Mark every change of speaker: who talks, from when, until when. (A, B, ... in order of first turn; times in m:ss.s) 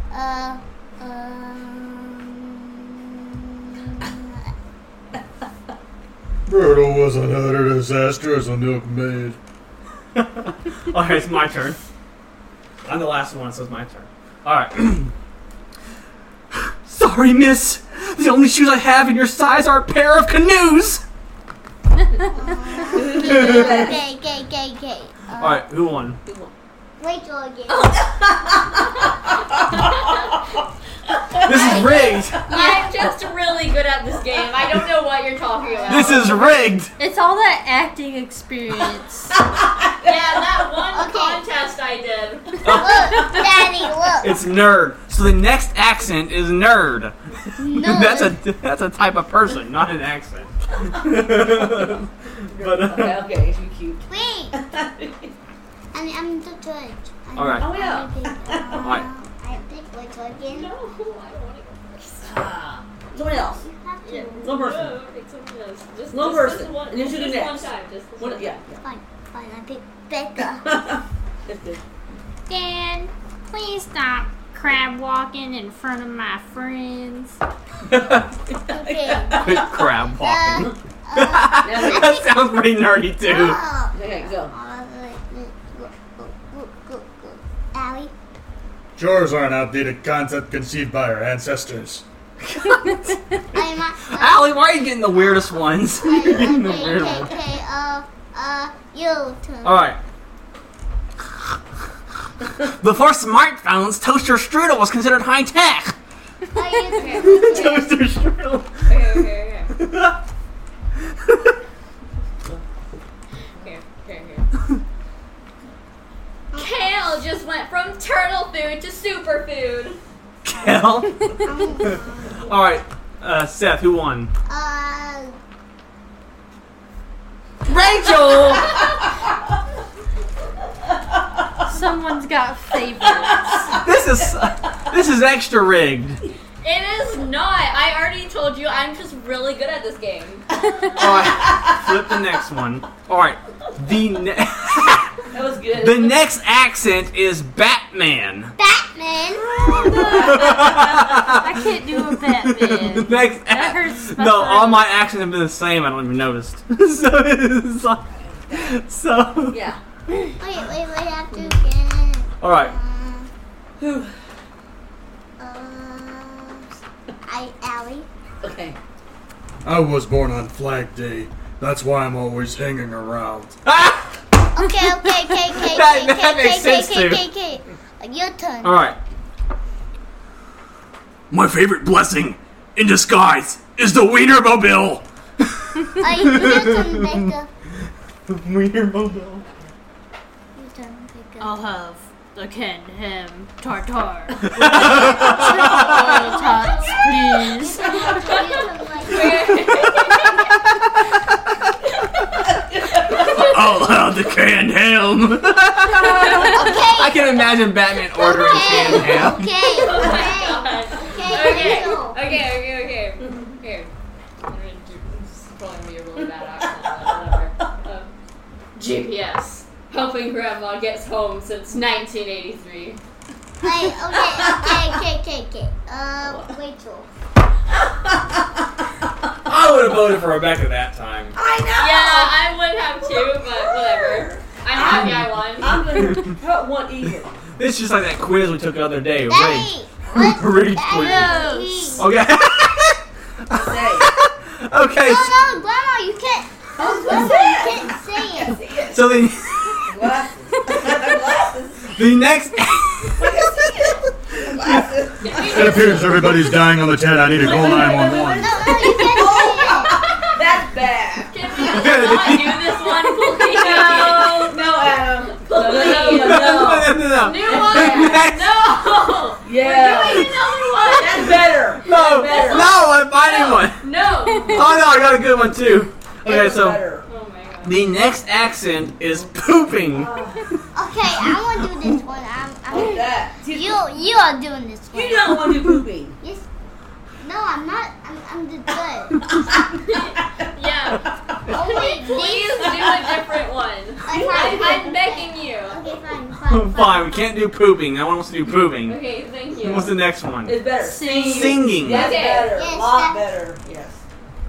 0:00.1-0:04.4 A
0:06.5-0:09.4 B
0:10.2-0:11.8 C
0:12.8-0:15.1 C
0:16.5-0:21.0 C
0:22.3-0:25.6 A
0:22.8-0:24.0 D
0:23.1-0:24.0 C
0:25.4-0:26.2 C
0:26.2-0:26.5 D
0:27.0-0:28.1 A
0:27.7-0:30.6 D
0:29.7-0:30.3 E
0:31.1-0:32.5 D
0:31.4-0:32.4 C
0:31.5-0:33.0 A
0:32.5-0:36.5 E
0:35.6-0:36.6 A
0:35.9-0:36.9 C
0:37.0-0:39.4 F
0:39.4-0:40.4 D
0:40.0-0:42.8 E
0:40.9-0:41.4 A
0:42.6-0:43.4 C
0:42.7-0:44.4 A
0:44.2-0:53.2 C
0:47.6-0:48.4 A
0:52.5-0:55.3 D
0:54.1-0:54.6 A
0:55.9-1:00.7 A
0:57.4-0:57.7 C
0:57.6-0:59.1 D
0:58.8-0:59.1 C
1:00.5-1:02.3 E
1:02.2-1:03.7 D
1:03.2-1:04.5 A
1:04.1-1:08.6 E
1:04.4-1:05.0 D
1:06.1-1:08.8 D
1:08.8-1:10.9 A
1:10.6-1:11.8 D
1:12.5-1:17.4 F
1:17.8-1:18.3 C
1:18.5-1:19.9 D
1:18.7-1:22.6 A
1:19.4-1:23.6 C
1:21.6-1:22.2 D
1:23.2-1:28.1 A
1:23.9-1:24.5 D
1:29.0-1:32.0 B
1:32.4-1:33.1 C
1:33.5-1:34.6 A
1:34.1-1:37.3 C
1:36.0-1:39.9 A
1:39.6-1:40.0 C
1:42.8-1:46.0 C
1:46.5-1:48.0 A
1:46.9-1:47.7 E
1:47.2-1:50.2 C
1:48.9-1:49.7 E
1:51.1-1:51.5 C
1:53.6-1:54.5 E
1:56.5-1:57.1 A
1:56.6-2:00.0 E
2:00.4-2:04.3 C
2:01.4-2:02.4 A
2:04.5-2:05.4 A
2:07.7-2:08.8 C
2:08.0-2:08.8 D
2:11.6-2:13.8 F
2:13.0-2:13.9 D
2:13.8-2:16.2 C
2:16.6-2:21.0 E
2:21.0-2:22.0 D
2:21.0-2:25.2 C
2:25.3-2:26.2 D
2:25.8-2:28.5 C
2:28.6-2:30.3 A
2:29.3-2:31.1 D
2:29.7-2:34.9 F
2:30.0-2:31.6 C
2:32.2-2:39.7 C
2:38.1-2:38.8 D
2:39.5-2:39.8 D
2:40.4-2:43.3 A
2:42.4-2:42.7 C
2:43.8-2:44.1 D
2:45.4-2:48.1 A
2:48.4-2:48.8 D
2:49.6-2:53.6 B
2:53.6-2:54.2 C
2:54.5-2:58.8 A
2:54.8-2:57.2 C
2:58.6-2:59.0 C
3:01.3-3:07.3 C
3:06.0-3:07.5 A
3:08.3-3:09.4 C
3:10.6-3:11.6 A
3:11.4-3:18.0 F
3:14.4-3:16.1 C
3:14.7-3:15.1 A
3:16.1-3:17.0 E
3:16.4-3:19.9 A
3:18.2-3:20.6 E
3:22.5-3:23.4 D
3:23.1-3:23.6 E
3:23.1-3:29.5 C
3:26.0-3:26.6 E
3:26.4-3:27.6 A
3:28.1-3:32.3 A
3:29.6-3:38.1 E
3:29.9-3:30.3 D
3:31.3-3:31.7 D
3:36.6-3:37.7 D
3:38.8-3:43.0 E
3:43.6-3:47.1 A
3:44.2-3:45.0 D
3:46.2-3:46.6 D
3:47.7-3:48.9 D
3:49.5-3:51.4 C
3:51.3-3:57.4 D
3:51.8-3:56.2 E
3:57.6-4:01.4 C
3:59.3-4:02.1 A
4:00.1-4:00.4 D
4:00.9-4:02.0 F
4:02.0-4:05.4 C
4:03.5-4:04.1 D
4:05.0-4:08.6 A
4:06.8-4:09.2 D
4:08.9-4:09.9 C
4:09.8-4:12.0 D
4:11.9-4:13.7 C
4:13.2-4:16.3 D
4:14.6-4:14.8 C
4:15.2-4:16.5 E
4:15.5-4:18.5 B
4:17.3-4:28.3 D
4:17.5-4:18.3 E
4:18.3-4:20.0 A
4:18.9-4:19.2 E
4:20.0-4:20.4 E
4:21.3-4:24.6 E
4:21.6-4:22.9 C
4:25.3-4:34.9 E
4:26.0-4:28.5 C
4:29.4-4:32.8 D
4:29.9-4:30.4 C
4:31.8-4:33.8 C
4:34.2-4:34.6 F
4:34.5-4:36.8 C
4:36.2-4:37.1 D
4:37.1-4:37.8 E
4:37.6-4:40.1 C
4:39.8-4:40.5 D
4:40.7-4:45.6 A
4:42.7-4:43.8 D
4:44.9-4:46.2 D
4:46.2-4:46.5 A
4:47.2-4:49.3 A
4:49.8-4:55.8 E
4:51.5-4:52.9 A
4:52.8-4:53.2 D
4:54.0-4:57.4 A
4:54.3-4:54.8 D
4:56.5-4:59.0 C
4:58.8-5:00.0 E
4:59.6-5:00.6 C
5:00.4-5:04.0 D
5:00.8-5:01.7 F
5:01.1-5:02.2 C
5:01.9-5:02.5 E
5:02.3-5:03.3 A